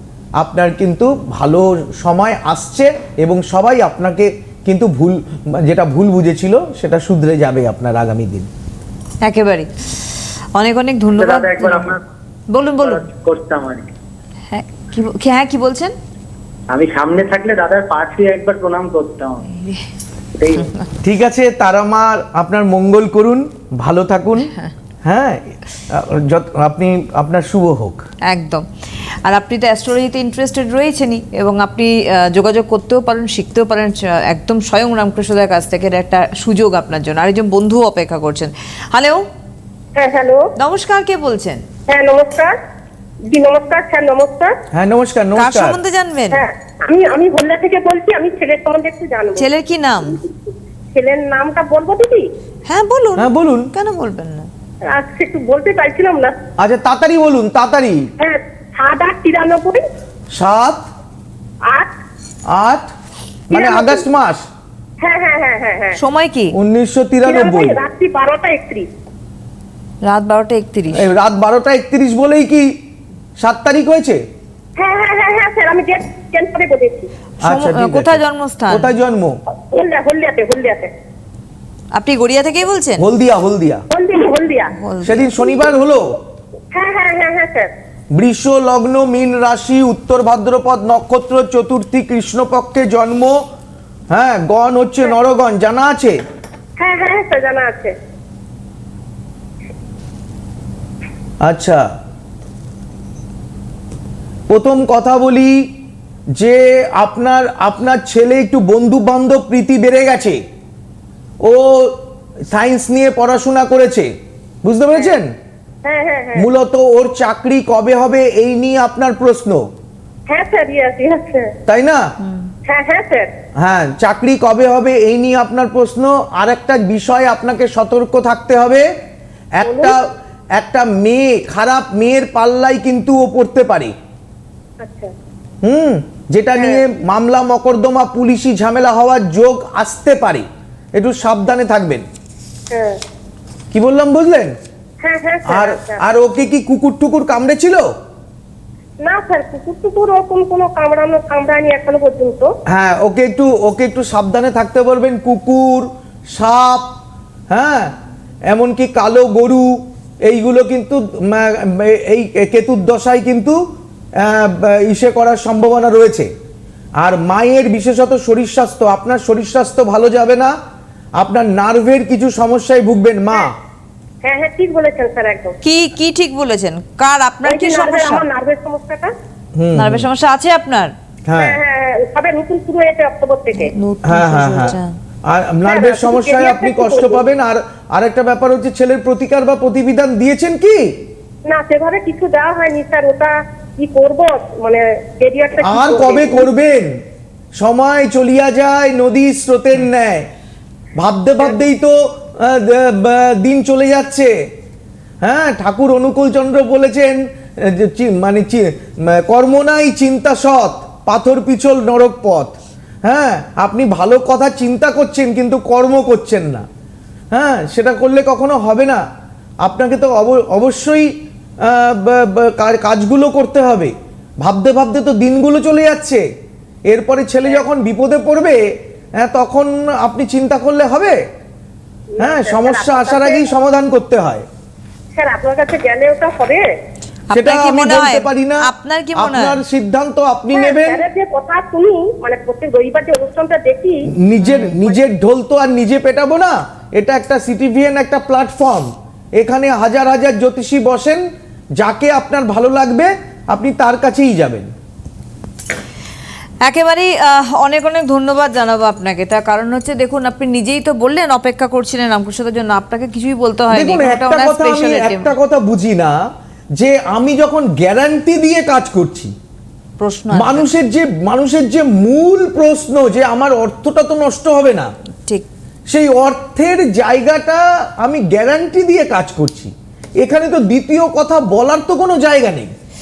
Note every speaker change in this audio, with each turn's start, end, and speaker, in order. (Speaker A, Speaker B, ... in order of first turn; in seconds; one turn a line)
Speaker A: 0.4-8.5
Speaker B: 9.2-9.7
Speaker B: 10.6-11.9
Speaker C: 11.2-12.0
Speaker B: 12.5-13.1
Speaker C: 12.8-13.8
Speaker B: 14.5-15.9
Speaker C: 16.7-19.4
Speaker B: 19.5-19.9
Speaker C: 20.4-20.7
Speaker A: 21.0-24.5
Speaker A: 25.0-28.0
Speaker B: 28.3-28.7
Speaker B: 29.2-39.2
Speaker D: 40.0-40.5
Speaker B: 40.6-41.6
Speaker D: 41.9-42.5
Speaker D: 43.3-44.6
Speaker A: 44.7-45.8
Speaker B: 45.4-46.4
Speaker D: 46.3-49.5
Speaker B: 49.4-50.2
Speaker D: 50.2-52.2
Speaker B: 52.7-54.5
Speaker A: 53.2-53.7
Speaker D: 54.9-56.4
Speaker A: 56.6-58.1
Speaker D: 58.2-59.8
Speaker A: 60.3-60.8
Speaker A: 62.5-62.9
Speaker A: 63.5-64.5
Speaker D: 63.5-64.0
Speaker D: 65.0-66.0
Speaker B: 66.0-66.5
Speaker A: 66.5-67.8
Speaker D: 67.3-68.9
Speaker B: 70.0-71.1
Speaker A: 70.9-72.7
Speaker A: 73.4-74.2
Speaker D: 74.8-77.1
Speaker B: 77.4-78.9
Speaker A: 77.5-79.4
Speaker D: 79.7-80.9
Speaker B: 82.0-83.0
Speaker A: 83.0-83.8
Speaker D: 83.9-84.7
Speaker B: 84.8-85.3
Speaker A: 85.0-86.2
Speaker D: 86.7-87.7
Speaker A: 88.2-93.4
Speaker A: 94.1-96.2
Speaker D: 96.8-97.9
Speaker A: 101.4-101.8
Speaker A: 104.5-105.7
Speaker A: 106.3-110.4
Speaker A: 111.4-114.1
Speaker A: 114.6-115.3
Speaker D: 115.8-116.5
Speaker A: 116.3-119.7
Speaker D: 120.3-121.5
Speaker A: 121.7-122.1
Speaker B: 122.2-122.5
Speaker D: 122.7-123.3
Speaker A: 123.6-128.9
Speaker A: 129.6-130.0
Speaker D: 129.6-130.0
Speaker A: 130.6-133.9
Speaker D: 134.8-135.1
Speaker A: 135.6-142.1
Speaker D: 136.6-136.8
Speaker D: 142.7-143.0
Speaker A: 143.7-144.6
Speaker D: 145.0-146.0
Speaker A: 145.5-147.9
Speaker D: 149.0-152.5
Speaker A: 152.7-156.9
Speaker A: 157.5-157.9
Speaker A: 158.5-163.6
Speaker A: 164.2-166.3
Speaker A: 167.0-170.6
Speaker A: 171.2-173.6
Speaker D: 174.2-175.6
Speaker B: 175.6-178.3
Speaker D: 177.4-179.1
Speaker A: 179.6-180.1
Speaker B: 179.8-180.9
Speaker A: 181.3-181.6
Speaker D: 181.4-183.7
Speaker B: 183.6-184.9
Speaker A: 184.1-190.9
Speaker D: 185.7-187.2
Speaker D: 191.5-196.5
Speaker A: 195.6-196.9
Speaker A: 197.6-200.3
Speaker A: 201.0-204.3
Speaker A: 205.2-212.5
Speaker A: 213.1-216.7
Speaker A: 217.3-219.0
Speaker A: 219.6-221.1
Speaker A: 221.6-226.3
Speaker A: 226.9-228.6
Speaker A: 229.2-231.2
Speaker D: 232.2-233.5
Speaker A: 232.2-234.4
Speaker D: 235.2-236.7
Speaker B: 237.3-239.6
Speaker A: 237.3-241.0
Speaker D: 240.5-244.1
Speaker A: 244.1-251.2
Speaker B: 244.4-244.8
Speaker A: 251.8-254.7
Speaker B: 256.7-265.3
Speaker A: 263.7-266.2
Speaker A: 266.8-269.3
Speaker B: 270.0-270.7
Speaker A: 270.3-274.9
Speaker A: 275.9-282.7